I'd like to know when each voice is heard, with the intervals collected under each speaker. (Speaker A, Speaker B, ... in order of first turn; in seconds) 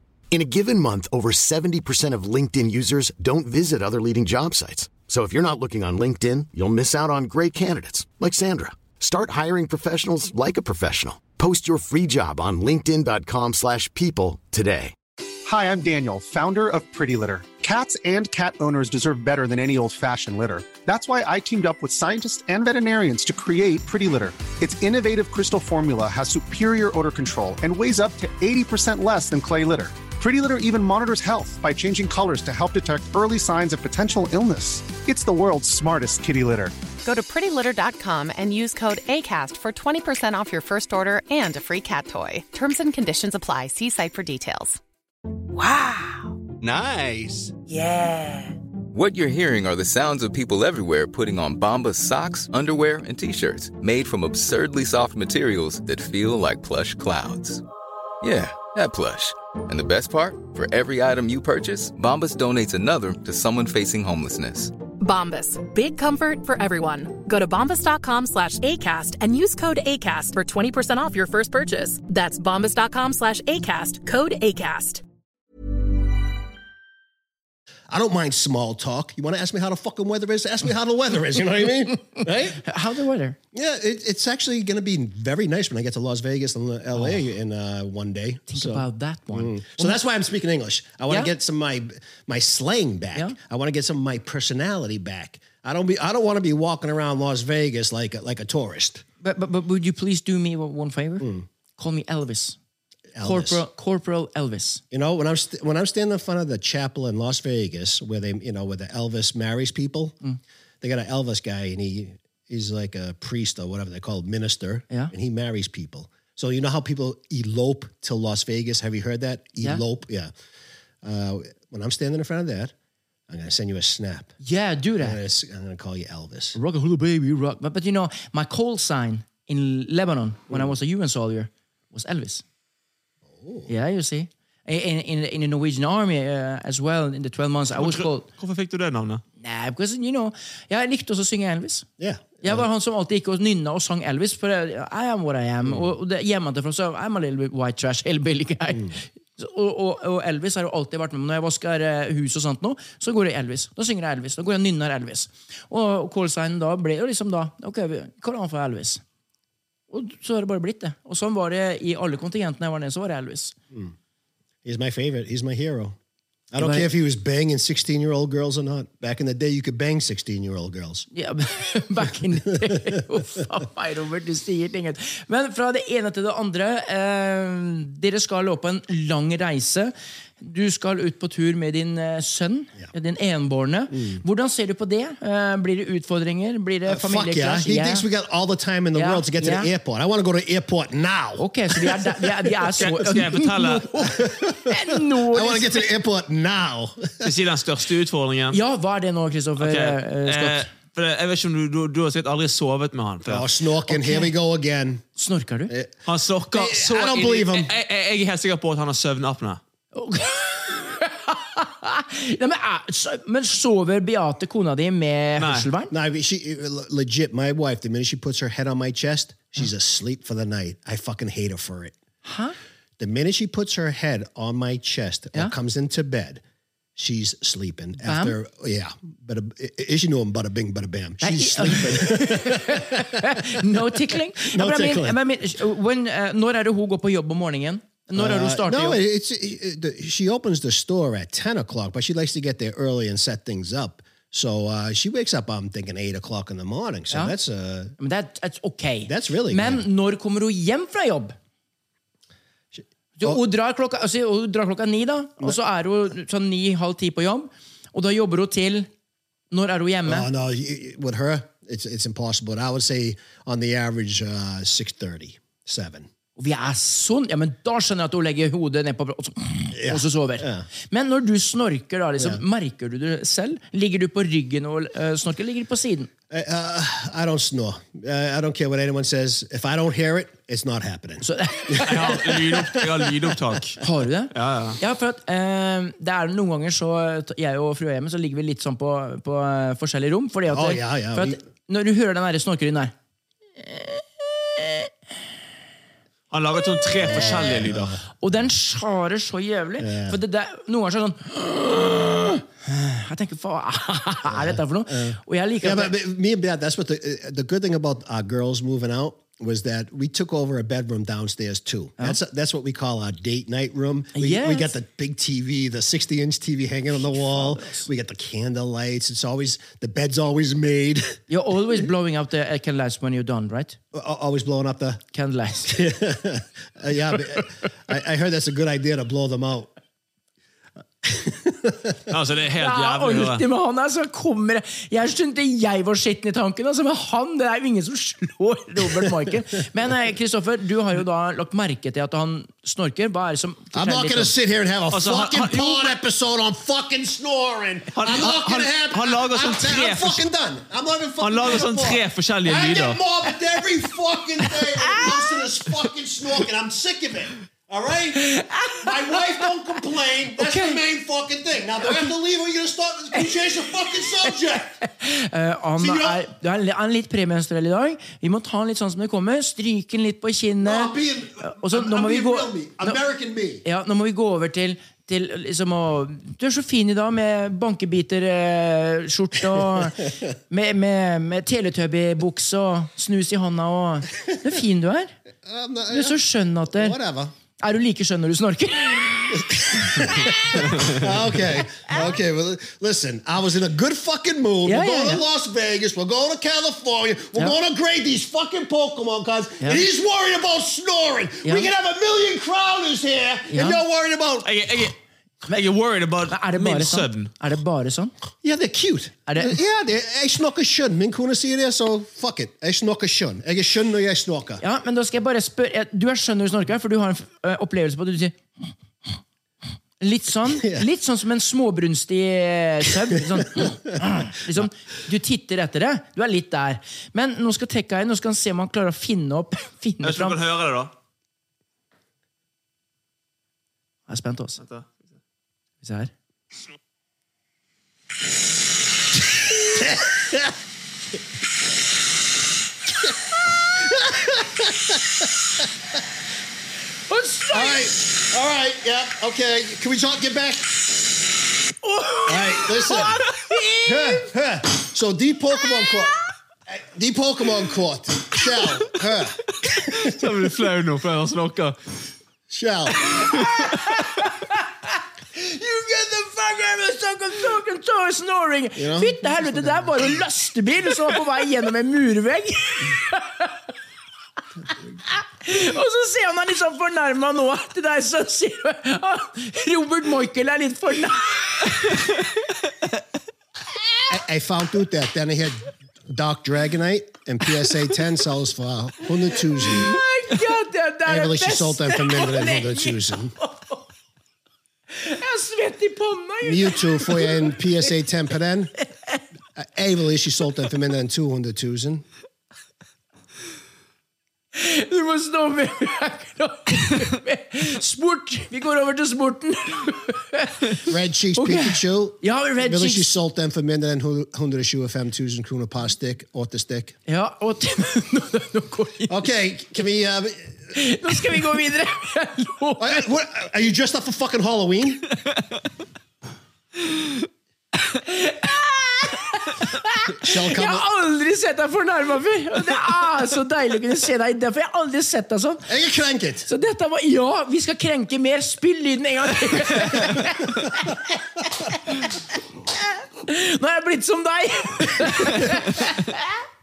Speaker A: 0.3-14.9
Speaker B: 15.5-36.8, 46.6-47.5
Speaker C: 37.0-44.8
Speaker D: 45.6-46.3, 47.7-48.5, 65.0-75.0
Speaker E: 48.9-57.6, 58.2-64.7
Speaker F: 77.9-82.7, 83.5-99.0, 101.2-101.5, 103.1-103.6, 104.9-110.2, 110.8-120.3, 121.0-122.7, 123.3-124.3, 125.0-126.6, 133.3-133.7, 142.0-142.7, 164.7-166.0, 166.5-171.1, 172.6-172.9, 183.9-184.2, 186.9-192.8, 194.1-197.3, 203.2-205.1, 205.7-207.7, 215.9-221.9, 223.0-226.4, 227.0-235.2, 238.1-247.9, 249.1-249.8, 252.7-253.4, 260.1-266.1, 269.7-270.7, 276.3-283.6, 290.5-291.4, 297.0-298.0, 299.8-300.2, 304.3-321.2, 323.9-325.0, 325.7-329.7, 331.0-332.1, 343.7-364.8, 365.8-366.2, 370.6-373.6, 385.4-386.2, 386.7-387.3, 389.5-404.6, 408.4-414.6, 420.5-420.9, 423.2-423.8, 439.7-440.5, 443.8-445.6, 447.5-450.8, 452.3-453.2, 453.9-456.1, 456.7-459.4, 462.5-463.1, 468.8-470.1, 484.1-490.0, 491.1-493.4, 496.4-498.7, 499.6-502.1, 510.9-517.0, 519.1-520.8, 522.8-525.1, 530.2-530.9, 535.7-536.5, 540.0-540.3
Speaker G: 82.2-83.4, 87.0-87.2, 88.5-90.0, 99.2-102.6, 103.2-104.8, 124.4-125.2, 126.5-132.4, 133.7-138.3, 139.4-141.9, 142.4-159.0, 159.9-163.6, 166.6-166.9, 171.1-188.1, 188.9-189.7, 191.4-195.8, 198.5-200.7, 203.9-204.3, 205.2-205.7, 209.9-215.9, 222.2-222.6, 228.0-228.4, 231.2-239.0, 248.0-251.4, 253.2-258.9, 259.5-260.3, 266.4-276.1, 281.2-282.2, 283.8-292.9, 293.6-294.9, 297.0-297.6, 298.2-305.9, 314.1-314.7, 317.0-317.9, 321.3-323.8, 325.1-325.8, 332.6-344.3, 354.8-355.1, 358.2-358.9, 360.4-360.8, 364.8-373.0, 373.6-385.2, 385.9-387.0, 387.6-391.0, 394.7-395.2, 401.4-401.7, 403.5-403.8, 406.3-408.1, 409.3-409.6, 414.6-418.6, 420.0-430.4, 434.1-434.6, 435.8-436.1, 447.1-447.9, 451.8-454.3, 463.2-473.6, 475.1-482.1, 489.4-493.9, 494.9-497.6, 504.6-513.1, 517.1-519.3, 520.7-523.0, 527.9-535.7, 536.5-546.4
Speaker H: 137.8-139.2, 192.8-194.0, 197.2-198.6, 199.6-203.5, 206.1-209.6, 215.4-215.7, 281.9-283.8, 284.3-284.8, 296.3-298.0, 332.1-333.4, 344.9-345.9, 348.0-350.2, 351.2-353.0, 404.4-405.0, 405.5-407.3, 430.0-430.9, 434.6-435.0, 459.9-461.8